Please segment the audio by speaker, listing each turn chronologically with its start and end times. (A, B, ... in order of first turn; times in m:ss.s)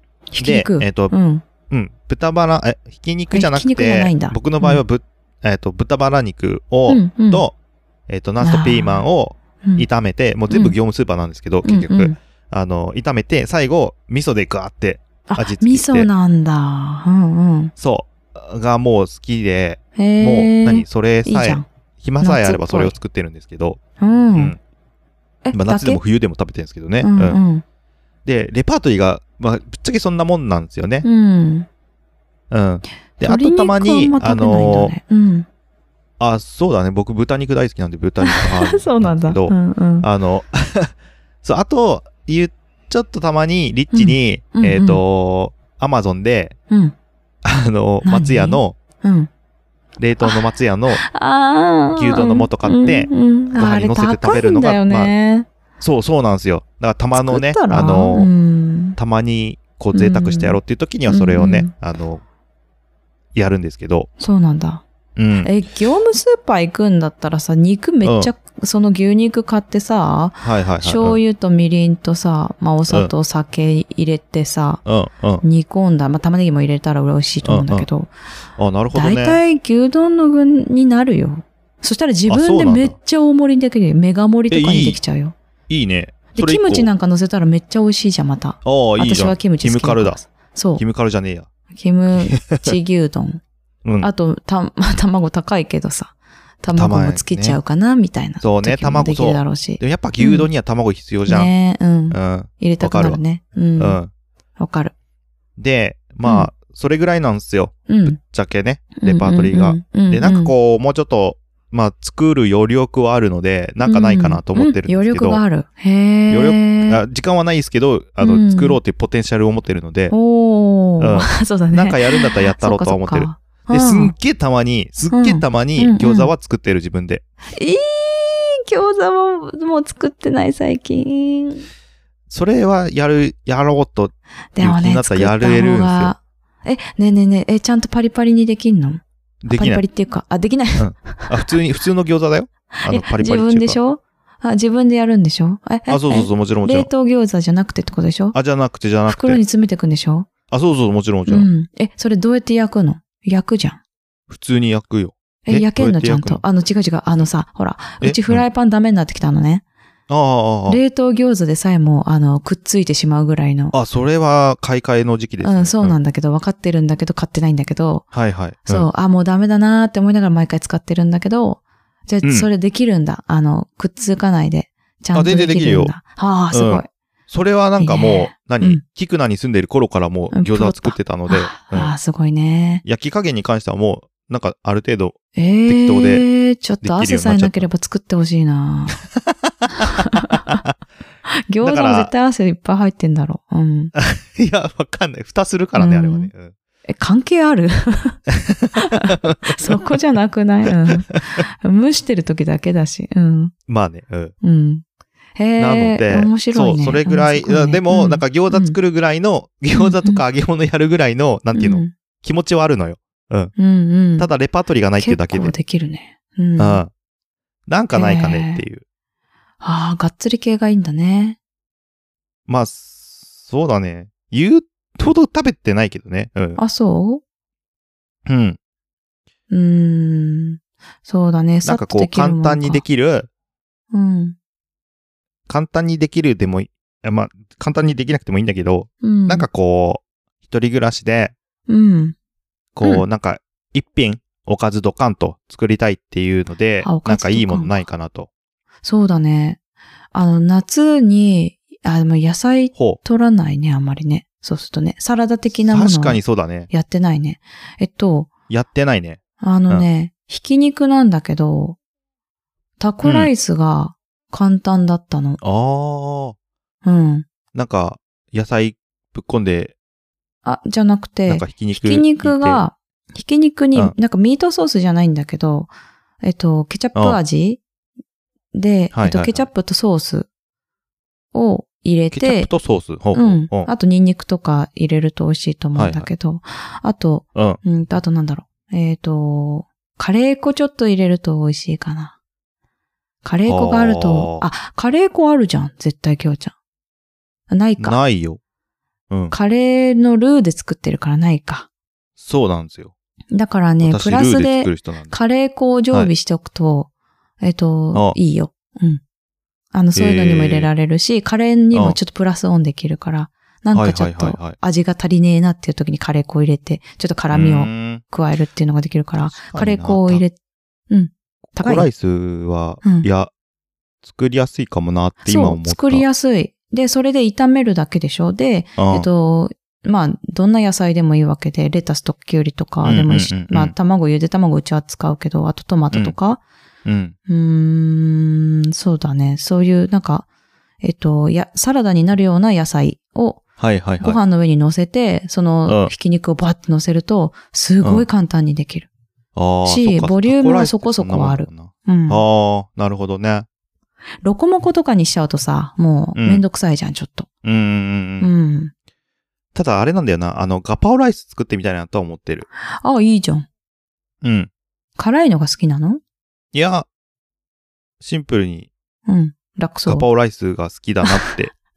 0:00.3-0:01.4 A
0:00.4-0:01.1 B
0:01.7-0:07.5 B
0:03.3-0:04.8 A
0:06.9-0:07.5 A
0:08.1-0:16.1 B
0:08.4-0:09.1 A
0:10.5-0:10.8 A
0:11.6-0:12.2 A
0:15.3-0:17.7 A
0:17.8-0:23.8 B
0:20.0-0:21.7 A
0:22.2-0:23.0 A
0:24.0-0:24.6 A
0:25.4-0:26.0 A
0:25.5-0:27.4 B
0:27.0-0:27.6 A
0:28.2-0:31.0 B
0:31.0-0:31.7 A
0:32.5-0:34.9 B
0:33.2-0:35.5 A
0:36.2-0:46.6 B
0:38.3-0:40.1 A
0:43.9-0:45.0 A
0:46.7-0:47.0 A
0:47.4-0:48.8 B
0:48.0-0:49.3 A
0:50.0-0:51.0 B
0:50.2-0:55.5 A
0:51.9-0:55.1 B
0:55.8-0:58.3 B
0:57.1-0:59.0 A
0:59.0-1:02.2 B
0:59.9-1:01.7 A
1:03.3-1:04.1 B
1:04.2-1:04.8 A
1:05.2-1:05.6 B
1:05.4-1:14.8 A
1:08.0-1:08.3 B
1:10.4-1:11.2 B
1:14.9-1:15.4 B
1:15.4-1:18.1 A
1:17.4-1:17.9 B
1:18.6-1:19.4 B
1:18.9-1:25.4 A
1:22.3-1:23.0 B
1:24.5-1:25.0 B
1:25.7-1:26.9 B
1:26.3-1:30.8 A
1:28.6-1:30.2 B
1:30.8-1:31.5 B
1:31.8-1:33.4 A
1:32.2-1:32.8 B
1:33.8-1:34.1 B
1:34.0-1:40.5 A
1:36.7-1:37.6 B
1:38.4-1:41.5 B
1:41.3-1:44.0 A
1:42.1-1:43.2 B
1:43.8-1:44.1 B
1:44.6-1:44.9 A
1:45.6-1:55.4 B
1:46.2-1:46.5 A
1:47.9-1:48.2 A
1:49.0-1:50.5 A
1:53.8-1:57.0 A
1:56.3-2:00.1 B
1:58.2-1:58.8 A
2:00.1-2:04.2 A
2:01.0-2:07.2 B
2:05.1-2:06.3 A
2:07.5-2:11.7 A
2:12.3-2:16.1 B
2:14.6-2:21.5 A
2:19.4-2:19.8 B
2:20.8-2:23.8 B
2:22.8-2:28.4 A
2:25.9-2:26.9 B
2:28.3-2:29.4 B
2:29.1-2:30.3 A
2:30.5-2:31.5 B
2:31.3-2:33.8 A
2:34.3-2:36.4 B
2:35.5-2:39.6 A
2:38.0-2:38.4 B
2:40.1-2:40.8 B
2:40.7-2:43.8 A
2:43.7-2:46.0 B
2:45.4-2:48.1 A
2:48.1-2:48.9 B
2:48.6-2:56.9 A
2:52.2-2:52.5 B
2:55.1-2:56.0 B
2:56.5-3:01.9 B
2:57.8-2:58.8 A
3:00.3-3:02.8 A
3:02.8-3:06.3 B
3:05.4-3:09.0 A
3:06.8-3:07.7 B
3:09.6-3:10.6 B
3:09.8-3:10.6 A
3:11.5-3:13.9 A
3:11.6-3:12.1 B
3:14.0-3:16.5 B
3:15.8-3:16.3 A
3:16.9-3:18.2 A
3:18.8-3:23.5 A
3:19.2-3:19.9 B
3:23.7-3:24.3 B
3:24.4-3:24.8 A
3:25.4-3:28.8 A
3:25.6-3:33.5 B
3:29.8-3:30.2 A
3:31.5-3:31.9 A
3:33.6-3:34.3 A
3:34.2-3:35.6 B
3:35.0-3:36.8 A
3:36.6-3:36.9 B
3:37.7-3:38.8 B
3:37.9-3:38.6 A
3:39.6-3:41.4 A
3:42.5-3:46.6 B
3:46.6-3:47.2 A
3:48.3-3:48.6 B
3:49.5-3:52.8 A
3:51.6-3:53.3 B
3:53.9-3:54.4 A
3:55.5-4:01.4 B
3:59.0-3:59.5 A
4:01.7-4:02.2 A
4:02.8-4:08.3 B
4:06.8-4:07.8 A
4:08.8-4:09.6 A
4:10.1-4:18.3 A
4:15.6-4:16.7 B
4:18.5-4:19.9 B
4:19.4-4:21.8 A
4:22.8-4:25.4 A
4:23.0-4:23.3 B
4:25.4-4:26.4 B
4:26.8-4:27.3 A
4:27.5-4:29.7 B
4:30.4-4:35.7 A
4:31.3-4:32.6 B
4:36.2-4:37.6 A
4:38.5-4:40.3 A
4:38.9-4:39.5 B
4:41.3-4:42.5 A
4:42.1-4:43.7 B
4:43.1-4:52.2 A
4:45.8-4:46.1 B
4:53.2-4:56.6 A
4:53.4-4:54.4 B
4:57.5-4:58.0 A
4:57.8-4:58.4 B
4:59.3-5:01.7 A
5:02.2-5:02.9 B
5:03.3-5:06.9 A
5:03.8-5:05.2 B
5:07.4-5:09.0 A
5:09.7-5:20.4 A
5:09.9-5:10.7 B
5:11.7-5:12.0 B
5:13.7-5:14.6 B
5:17.3-5:18.0 B
5:19.3-5:20.2 B
5:20.9-5:21.9 A
5:21.6-5:23.3 B
5:22.8-5:23.1 A
5:24.0-5:26.1 B
5:25.2-5:36.4 A
5:28.8-5:29.1 B
5:32.8-5:33.8 B
5:36.9-5:37.2 B
5:37.3-5:40.3 A
5:40.8-5:43.4 A
5:43.6-5:44.2 B
5:44.0-5:48.9 A
5:45.7-5:45.9 B
5:49.4-5:53.5 B
5:49.6-5:52.2 A
5:54.2-5:57.3 A
5:56.2-5:56.4 B
5:57.4-5:58.3 B
5:58.2-5:58.7 A
5:59.5-6:02.5 B
6:02.8-6:03.5 A
6:04.2-6:04.5 B
6:05.0-6:06.0 A
6:06.5-6:06.9 B
6:08.0-6:08.7 B
6:09.1-6:10.1 A
6:09.9-6:11.5 B